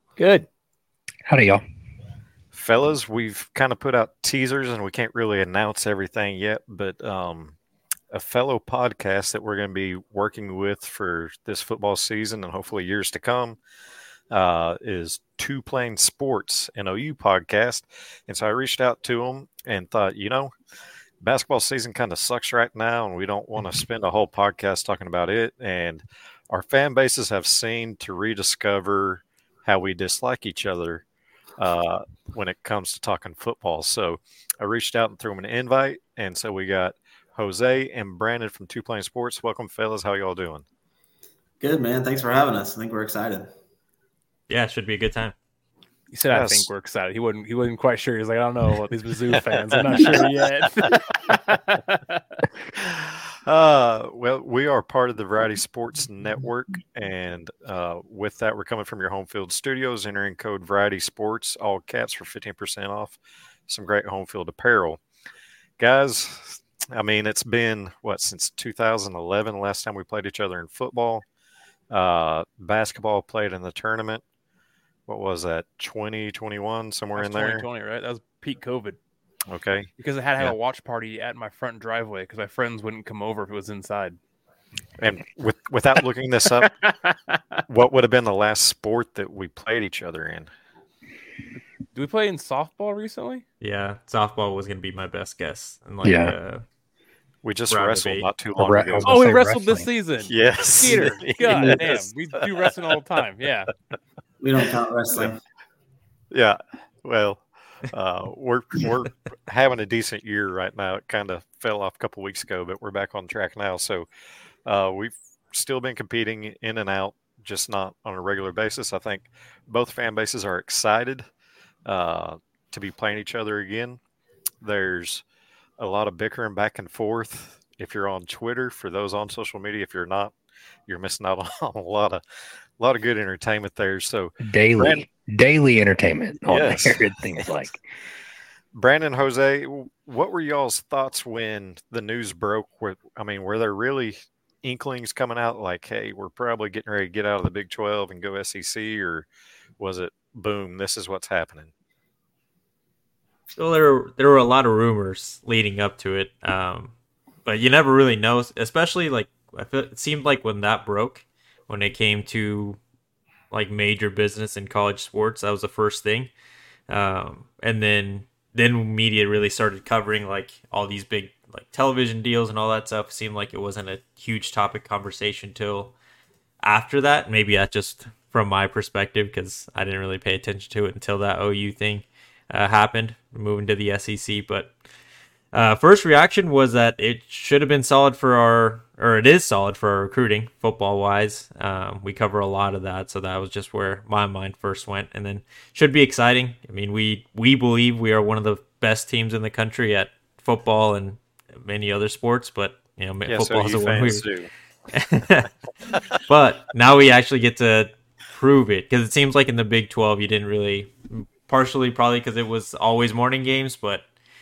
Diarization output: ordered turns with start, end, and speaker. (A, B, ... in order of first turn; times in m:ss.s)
0:00.2-0:00.5 A
0:01.2-0:01.6 B
0:02.5-0:07.6 C
0:08.1-0:13.6 C
0:14.3-0:20.5 C
0:21.2-0:31.0 C
0:31.6-0:40.6 C
0:41.6-0:43.5 D
0:44.5-0:45.3 E
0:46.1-0:52.4 A
0:46.3-0:46.7 C
0:49.6-0:50.2 C
0:52.7-1:05.0 C
1:05.8-1:11.2 C
1:11.9-1:14.2 C
1:15.1-1:17.6 C
1:17.2-1:19.0 A
1:19.5-1:19.9 C
1:20.0-1:24.2 A
1:25.0-1:26.8 C
1:26.7-1:27.6 A
1:27.7-1:30.5 C
1:31.9-1:33.4 A
1:33.6-1:36.6 E
1:36.0-1:36.4 B
1:37.4-1:39.2 C
1:37.7-1:38.3 E
1:38.6-1:39.9 B
1:39.0-1:43.7 A
1:40.3-1:42.0 C
1:44.4-1:45.4 D
1:46.3-1:54.1 C
1:54.6-2:01.3 C
2:01.8-2:04.0 C
2:04.6-2:05.2 C
2:05.8-2:10.3 C
2:10.9-2:12.2 C
2:12.8-2:15.0 C
2:14.4-2:17.8 B
2:16.5-2:17.4 C
2:18.7-2:29.3 C
2:29.8-2:31.7 C
2:33.6-2:36.9 E
2:37.4-2:42.8 E
2:43.5-2:46.3 E
2:46.9-2:55.9 E
2:56.6-3:04.7 E
3:05.5-3:24.3 E
3:23.3-3:24.5 C
3:24.9-3:25.5 E
3:26.3-3:34.0 E